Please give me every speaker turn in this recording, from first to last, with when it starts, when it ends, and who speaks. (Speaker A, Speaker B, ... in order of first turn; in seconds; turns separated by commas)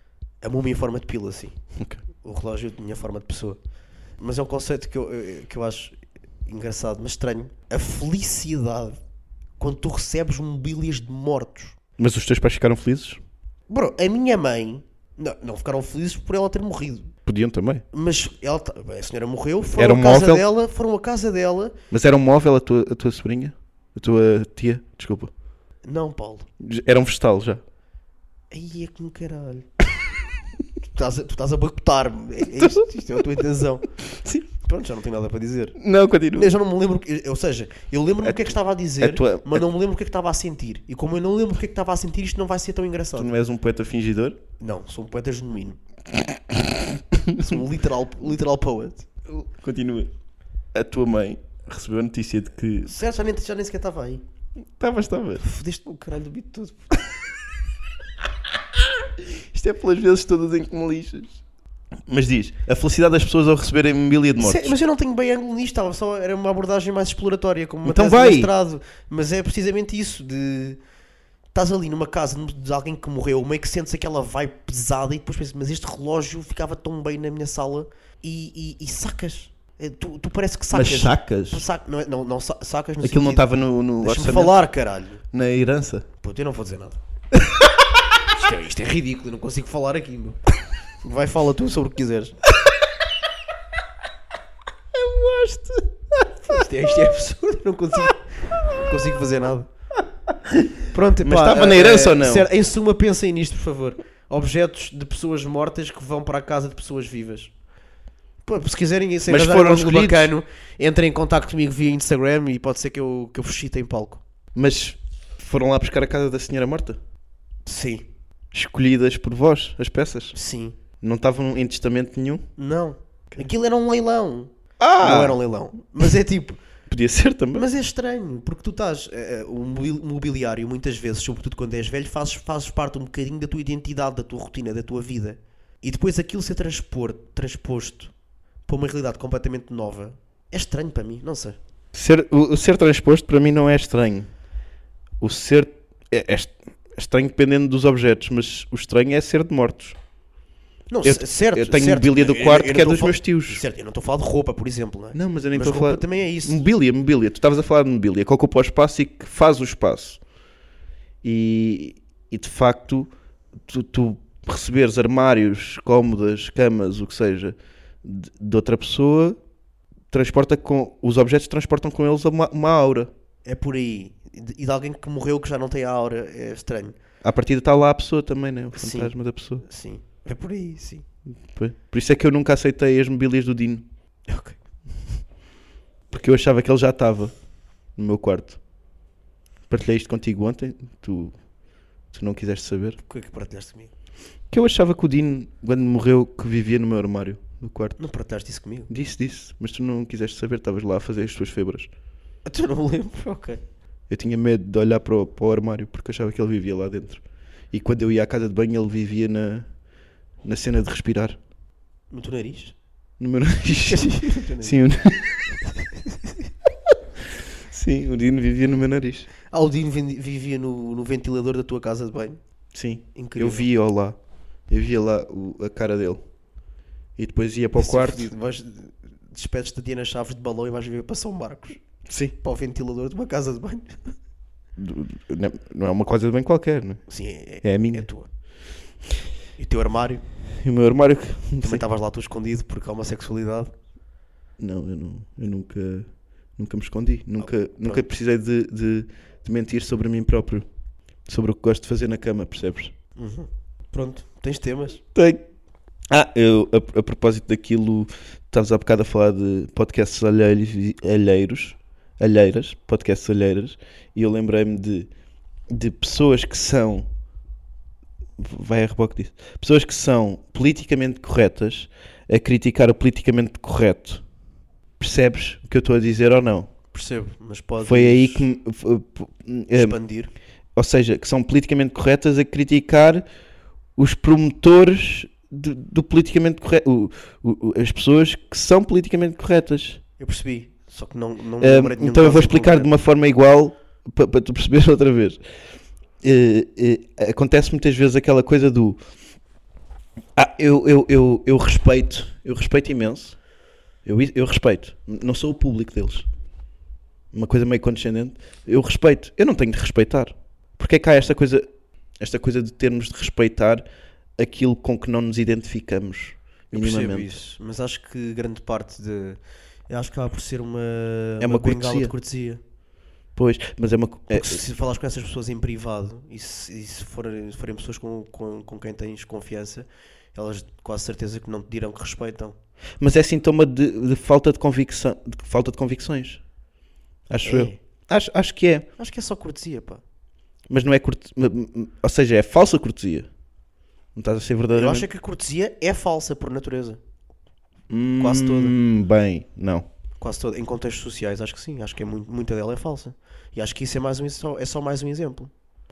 Speaker A: 0.4-1.6, Speaker B: 1.8-2.0, Speaker A: 2.1-3.6, Speaker A: 4.2-9.0, Speaker A: 9.6-11.8, Speaker B: 12.0-13.2, Speaker A: 13.7-17.1, Speaker B: 17.2-17.8, Speaker A: 17.9-21.7, Speaker B: 19.8-20.4, Speaker B: 21.9-25.3, Speaker A: 25.8-26.5, Speaker B: 26.6-27.6, Speaker A: 28.5-29.7, Speaker A: 30.9-33.9, Speaker B: 32.5-32.9, Speaker B: 34.0-34.4, Speaker A: 34.6-35.8, Speaker B: 35.8-36.5, Speaker A: 36.3-43.3, Speaker B: 38.2-39.6, Speaker B: 43.1-44.4, Speaker A: 44.6-45.8, Speaker B: 47.1-47.5, Speaker A: 47.4-49.1, Speaker B: 49.3-50.1, Speaker B: 50.7-52.9, Speaker A: 52.8-54.2, Speaker B: 54.7-55.4, Speaker A: 55.4-57.1, Speaker B: 59.2-61.4, Speaker B: 62.1-64.7, Speaker A: 64.4-70.8, Speaker B: 67.8-68.5, Speaker A: 71.5-83.5, Speaker B: 80.7-81.6, Speaker B: 83.0-84.6, Speaker A: 84.0-85.2, Speaker B: 85.3-86.1, Speaker A: 86.2-87.0, Speaker A: 88.3-90.4, Speaker A: 91.0-92.3, Speaker B: 94.9-96.3, Speaker A: 96.4-99.7, Speaker A: 100.8-107.5, Speaker B: 101.2-102.5, Speaker A: 108.4-114.2, Speaker B: 109.3-110.3, Speaker B: 114.5-117.0, Speaker A: 117.7-118.0, Speaker B: 118.5-120.3, Speaker A: 120.3-120.8, Speaker B: 121.0-122.5, Speaker A: 122.6-126.6, Speaker B: 124.8-125.4, Speaker B: 126.9-127.7, Speaker A: 127.5-138.1, Speaker A: 138.7-141.6, Speaker B: 141.9-144.3, Speaker B: 145.2-150.0, Speaker A: 150.9-156.6, Speaker B: 151.0-153.6, Speaker B: 155.1-160.2, Speaker B: 161.2-169.4, Speaker B: 170.1-173.1, Speaker A: 173.4-177.0, Speaker B: 177.2-179.6, Speaker A: 178.7-181.0, Speaker B: 181.5-183.8, Speaker A: 184.3-184.6, Speaker B: 186.1-187.3, Speaker B: 187.9-188.6, Speaker B: 189.7-191.3, Speaker B: 192.1-193.0, Speaker A: 193.0-193.9, Speaker B: 194.5-198.0, Speaker A: 198.0-198.9, Speaker B: 198.9-201.9, Speaker A: 202.4-203.6, Speaker B: 204.1-209.7, Speaker B: 210.4-211.4, Speaker A: 212.1-212.7, Speaker B: 213.2-215.6, Speaker A: 213.8-214.8, Speaker B: 217.7-219.3, Speaker A: 219.5-222.4, Speaker B: 222.7-224.2, Speaker A: 223.1-223.7, Speaker B: 224.7-226.2, Speaker B: 227.2-228.3, Speaker A: 227.8-231.8, Speaker B: 232.1-232.3, Speaker A: 232.4-234.0, Speaker B: 234.8-237.0, Speaker A: 237.1-238.3, Speaker B: 237.6-238.1, Speaker A: 239.6-240.2, Speaker B: 240.6-241.8, Speaker A: 241.6-243.7, Speaker B: 244.6-250.7, Speaker A: 247.4-248.0, Speaker B: 251.3-252.9, Speaker A: 253.2-255.0, Speaker B: 255.1-255.4, Speaker B: 256.1-265.1, Speaker B: 265.7-267.1, Speaker B: 268.4-274.2, Speaker B: 275.0-276.7, Speaker A: 276.9-278.5, Speaker B: 277.8-280.0, Speaker A: 279.7-280.3, Speaker B: 280.8-283.2, Speaker B: 283.9-290.0, Speaker A: 290.2-292.9, Speaker B: 291.6-295.4, Speaker B: 296.2-299.0, Speaker B: 300.3-303.4, Speaker B: 304.0-306.3, Speaker B: 307.3-311.7, Speaker B: 312.2-313.8, Speaker B: 314.4-317.3, Speaker A: 316.7-322.6, Speaker B: 321.4-322.1, Speaker B: 323.4-324.6, Speaker A: 324.3-332.6, Speaker B: 333.0-336.4, Speaker B: 337.3-338.9, Speaker A: 337.4-337.8, Speaker A: 339.0-340.0, Speaker B: 340.7-343.3, Speaker B: 344.1-345.1, Speaker A: 344.7-347.0, Speaker B: 347.9-349.9, Speaker A: 348.2-348.7, Speaker A: 350.2-355.5